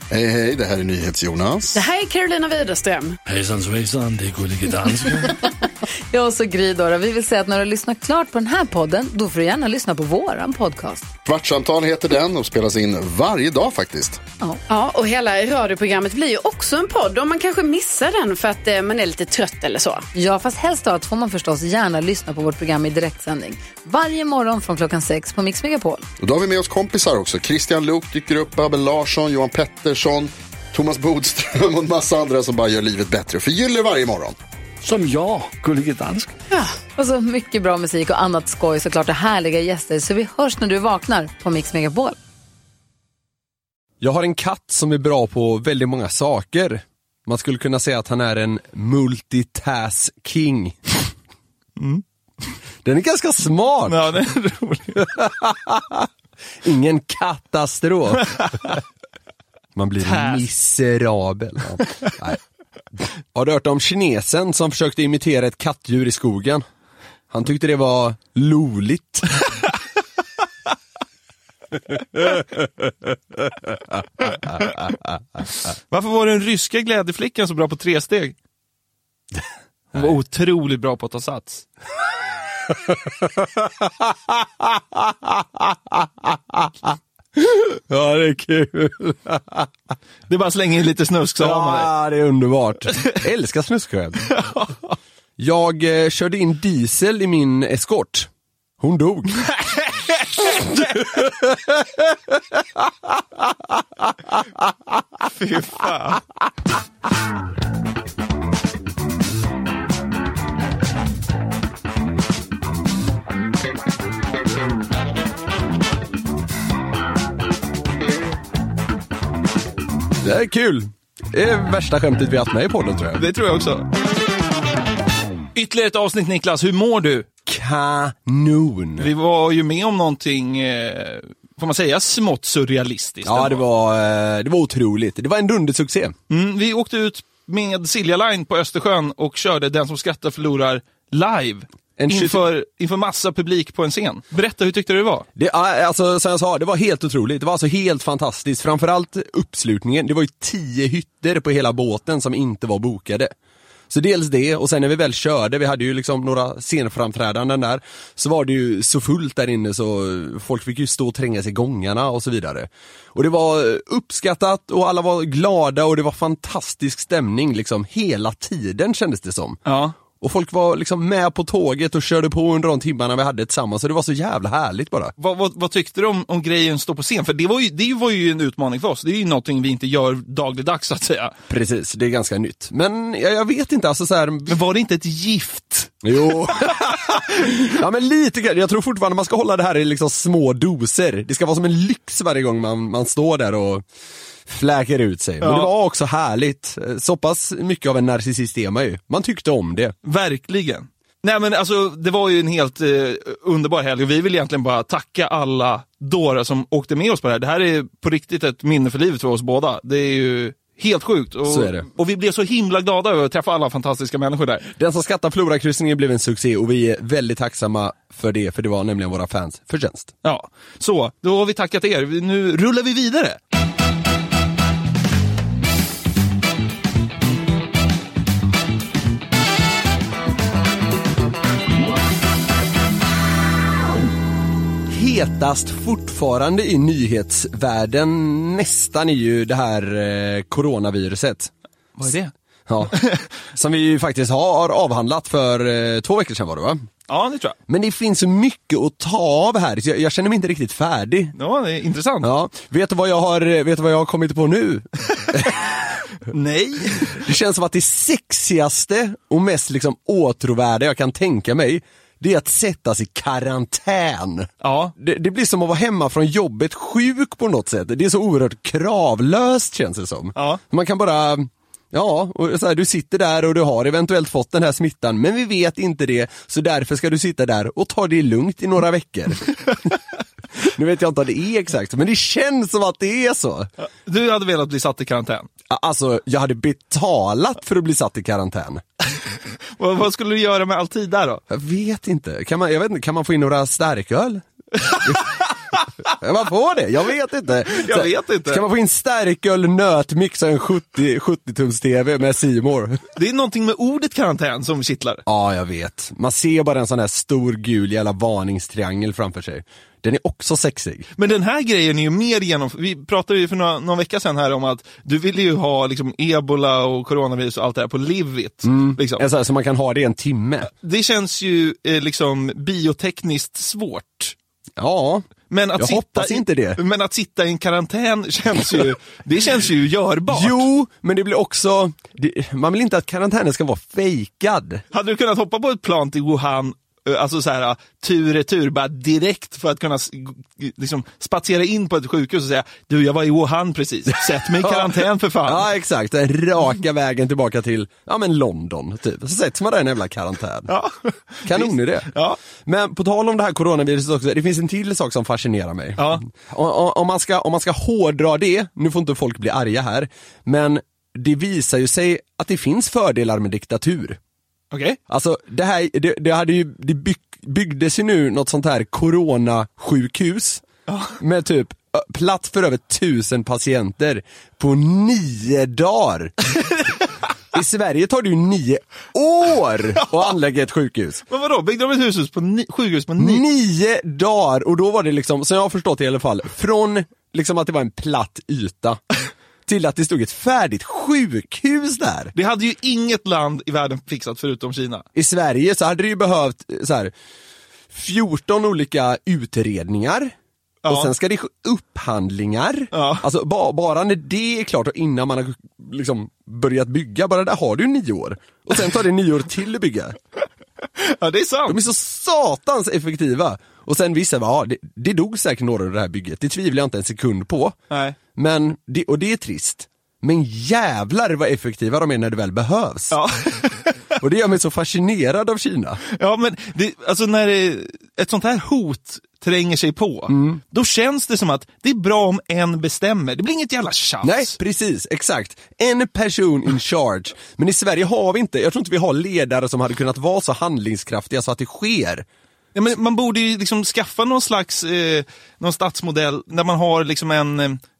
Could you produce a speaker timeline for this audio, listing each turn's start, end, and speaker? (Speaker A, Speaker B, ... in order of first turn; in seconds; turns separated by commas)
Speaker A: 0.1-1.8, Speaker B: 1.7-3.2, Speaker C: 3.2-5.3, Speaker D: 6.1-11.1, Speaker A: 11.2-14.2, Speaker B: 14.7-20.1, Speaker D: 20.1-26.0, Speaker A: 26.2-34.4, Speaker C: 34.8-36.3, Speaker D: 36.5-42.2, Speaker E: 44.0-50.8, Speaker F: 51.8-52.0, Speaker E: 52.8-54.1, Speaker F: 53.9-55.1, Speaker E: 55.0-56.1, Speaker E: 56.6-58.4, Speaker F: 58.2-58.8, Speaker E: 59.7-62.4, Speaker F: 60.0-60.5, Speaker E: 63.0-66.6, Speaker E: 67.3-69.5, Speaker E: 71.9-75.1, Speaker F: 75.9-78.3, Speaker F: 79.9-81.6, Speaker E: 82.7-89.7, Speaker F: 90.3-91.9, Speaker E: 91.4-94.4, Speaker F: 94.3-94.7, Speaker E: 95.4-98.3, Speaker E: 98.8-99.4, Speaker F: 99.4-101.1, Speaker E: 100.9-104.7, Speaker F: 105.3-106.2, Speaker E: 120.2-123.2, Speaker F: 123.2-123.9, Speaker F: 125.5-127.3, Speaker E: 127.5-129.1, Speaker F: 129.0-133.6, Speaker E: 133.2-136.2, Speaker F: 136.3-145.2, Speaker E: 142.0-142.4, Speaker E: 145.3-153.3, Speaker E: 153.9-169.6, Speaker F: 169.7-169.9, Speaker E: 170.2-175.1, Speaker F: 175.2-181.3, Speaker E: 181.5-184.6, Speaker F: 184.5-186.0, Speaker E: 186.0-193.8, Speaker E: 194.5-199.9, Speaker F: 195.4-195.7, Speaker F: 200.0-214.7, Speaker E: 211.5-211.8, Speaker E: 214.7-220.1, Speaker F: 220.2-223.4, Speaker E: 234.9-241.5, Speaker F: 242.0-242.3, Speaker E: 242.7-246.8, Speaker F: 242.9-243.2, Speaker F: 247.1-247.6, Speaker E: 247.7-251.3, Speaker F: 251.3-252.3, Speaker E: 252.2-255.7, Speaker F: 256.2-257.2, Speaker E: 257.2-279.7, Speaker F: 264.6-264.9, Speaker E: 280.6-283.7, Speaker F: 284.1-285.5, Speaker E: 285.7-288.8, Speaker F: 289.8-291.4, Speaker E: 291.5-295.4, Speaker F: 294.8-295.5, Speaker E: 296.1-303.0, Speaker F: 297.7-298.6, Speaker F: 303.1-305.2, Speaker E: 305.3-311.1, Speaker F: 311.2-319.2, Speaker E: 318.6-320.7, Speaker F: 320.8-324.3, Speaker E: 324.8-326.8, Speaker F: 325.5-330.6, Speaker E: 330.3-334.8, Speaker F: 334.9-345.7, Speaker E: 344.6-344.9, Speaker E: 345.4-350.7, Speaker F: 350.7-352.4, Speaker E: 351.4-364.2, Speaker F: 356.0-356.2, Speaker F: 364.7-365.0, Speaker E: 365.1-370.6, Speaker F: 370.9-371.2, Speaker E: 371.2-376.3, Speaker E: 377.5-381.2, Speaker F: 381.3-383.4, Speaker E: 383.2-389.0, Speaker E: 389.7-392.3, Speaker F: 392.3-395.1, Speaker E: 395.1-397.1, Speaker E: 397.9-400.3, Speaker F: 400.8-401.1, Speaker E: 400.9-410.1, Speaker F: 402.9-403.2, Speaker F: 411.0-411.8, Speaker E: 411.7-417.8, Speaker F: 417.9-418.1, Speaker E: 418.3-423.2, Speaker F: 423.1-424.0, Speaker E: 424.2-426.0, Speaker F: 426.1-434.5, Speaker E: 430.3-430.6, Speaker E: 434.2-442.3, Speaker F: 442.7-447.8